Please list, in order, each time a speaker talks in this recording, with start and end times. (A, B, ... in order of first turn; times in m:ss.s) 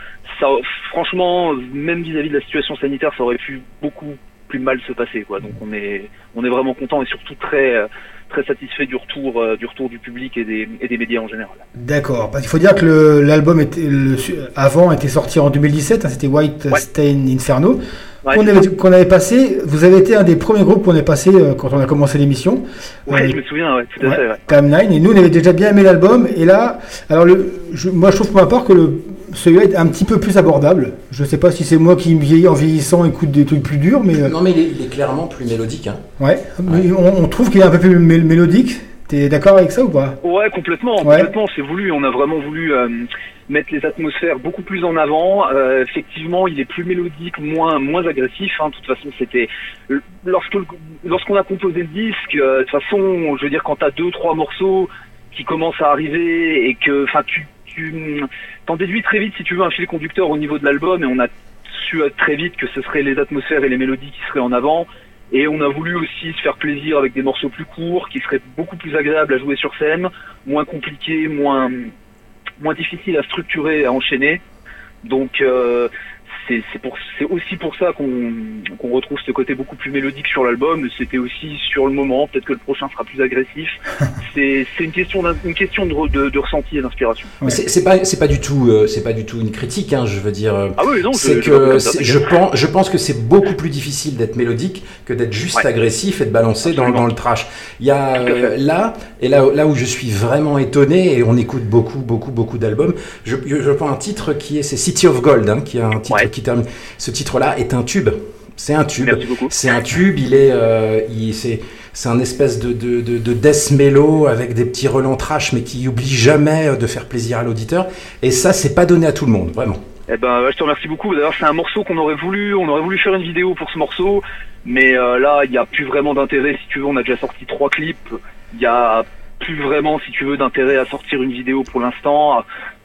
0:00.3-0:11.6 A
0:11.8-0:23.4 B
0:18.2-0:18.6 A
0:23.1-0:24.4 A
0:24.0-0:34.3 B
0:34.2-0:36.0 C
0:36.2-0:40.2 B
0:40.2-1:11.9 A
0:41.0-0:41.3 B
1:12.6-1:14.4 A
1:15.0-1:15.9 A
1:16.4-1:27.4 A
1:27.4-1:59.8 C
1:30.8-1:32.3 A
1:36.6-1:37.0 A
1:38.2-1:38.5 A
1:49.0-1:49.5 A
2:00.1-2:12.4 A